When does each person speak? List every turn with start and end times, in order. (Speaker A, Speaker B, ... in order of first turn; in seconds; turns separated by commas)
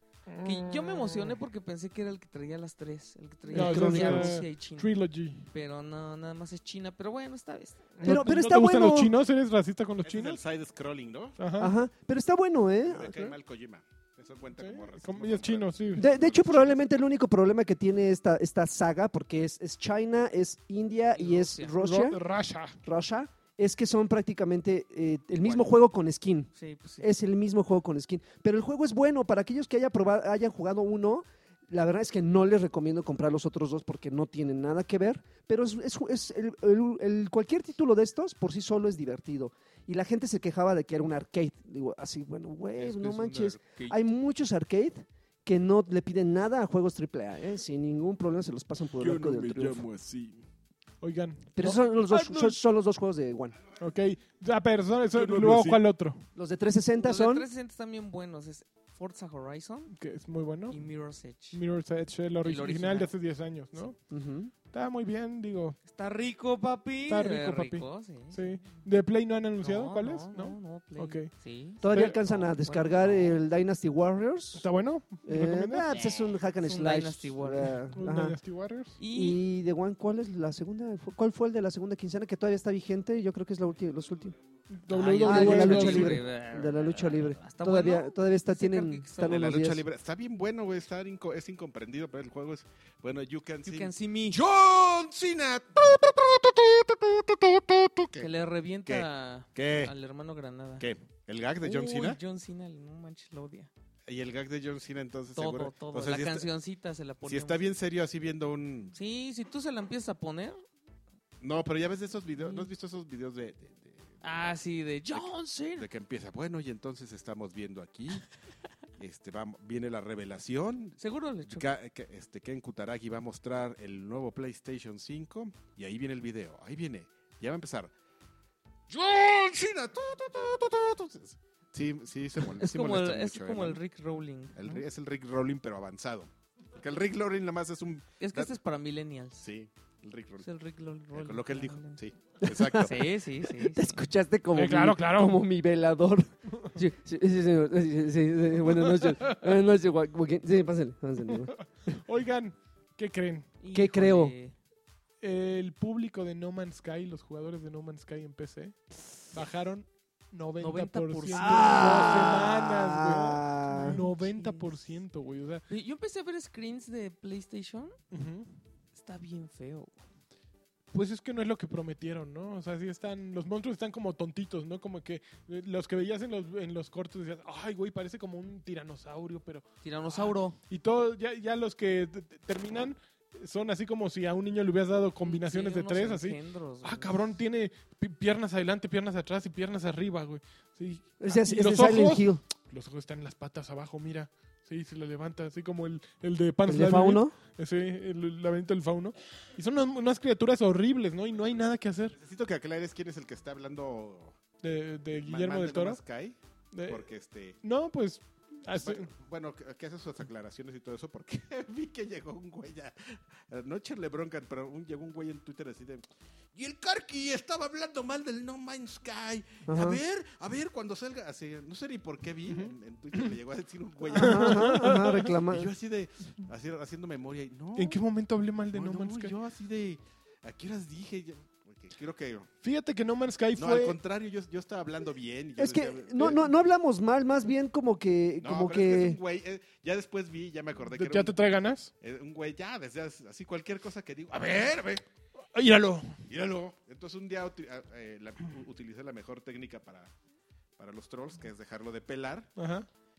Speaker A: 0.3-1.3, Speaker B: 0.4-4.9, Speaker C: 3.5-4.4, Speaker A: 3.5-5.5, Speaker B: 5.5-7.8, Speaker A: 8.0-10.4, Speaker C: 8.0-9.1, Speaker D: 10.0-11.4, Speaker A: 11.4-11.7, Speaker C: 11.6-13.3, Speaker D: 12.8-16.8, Speaker A: 14.6-16.1, Speaker C: 15.9-22.2, Speaker B: 21.1-21.7, Speaker A: 21.8-22.8, Speaker C: 22.8-26.5, Speaker B: 26.5-27.1, Speaker C: 27.0-49.9, Speaker D: 42.8-43.9, Speaker D: 49.0-50.4, Speaker A: 51.0-52.5, Speaker C: 51.6-53.6, Speaker B: 52.1-52.5, Speaker A: 53.8-56.2, Speaker D: 55.1-55.8, Speaker C: 56.3-57.5, Speaker B: 57.0-59.9, Speaker A: 59.9-60.8, Speaker B: 60.7-61.6, Speaker A: 61.5-64.0, Speaker B: 62.4-63.1, Speaker C: 64.1-64.5, Speaker A: 64.7-65.8, Speaker B: 65.8-68.6, Speaker A: 67.1-71.3, Speaker B: 69.6-73.4, Speaker C: 71.8-74.6, Speaker A: 71.9-72.2, Speaker A: 74.5-75.9, Speaker C: 75.2-78.4, Speaker B: 75.9-77.8, Speaker A: 77.6-79.0, Speaker B: 79.0-79.4, Speaker C: 79.1-84.4, Speaker A: 84.7-86.2, Speaker B: 84.9-89.5, Speaker C: 85.2-89.8, Speaker D: 89.2-98.3, Speaker B: 93.6-94.4, Speaker B: 98.2-100.8, Speaker D: 98.8-99.9, Speaker D: 100.8-102.2, Speaker B: 101.6-103.7, Speaker D: 104.1-106.5, Speaker B: 105.3-107.6, Speaker D: 107.2-108.9, Speaker B: 108.9-110.6, Speaker D: 111.4-114.2, Speaker B: 112.4-112.7, Speaker B: 114.2-115.9, Speaker D: 115.1-118.2, Speaker D: 119.0-127.9, Speaker B: 121.0-121.7, Speaker D: 128.9-133.8, Speaker B: 132.5-134.8, Speaker D: 134.6-138.5, Speaker B: 138.2-139.4, Speaker D: 139.4-140.5, Speaker B: 140.4-142.0, Speaker D: 141.1-143.1, Speaker C: 142.4-152.0, Speaker B: 142.8-144.0, Speaker A: 144.5-145.4, Speaker A: 148.7-149.3, Speaker A: 151.3-153.5, Speaker B: 153.6-154.5, Speaker C: 153.7-154.3, Speaker A: 155.2-158.8, Speaker A: 159.3-165.6, Speaker B: 160.6-162.2, Speaker C: 161.3-164.0, Speaker B: 163.7-164.7, Speaker B: 165.7-167.9, Speaker A: 168.1-168.5, Speaker B: 168.9-169.9, Speaker A: 170.9-202.1, Speaker B: 179.8-180.6, Speaker B: 185.2-187.1, Speaker C: 191.2-192.4, Speaker C: 196.7-197.3, Speaker D: 202.2-204.4, Speaker A: 204.6-206.0, Speaker D: 205.1-207.6, Speaker A: 206.7-207.1, Speaker A: 207.6-209.1, Speaker D: 208.8-228.0, Speaker C: 219.7-220.0, Speaker C: 224.1-225.7, Speaker A: 224.1-225.3, Speaker A: 227.8-229.3, Speaker D: 228.7-232.5, Speaker A: 232.6-234.0, Speaker D: 233.6-236.5, Speaker C: 235.6-239.2, Speaker D: 238.4-241.3, Speaker A: 240.9-241.9, Speaker D: 242.0-245.1, Speaker A: 245.5-246.2, Speaker D: 246.3-250.1, Speaker D: 250.8-252.5, Speaker A: 252.6-252.8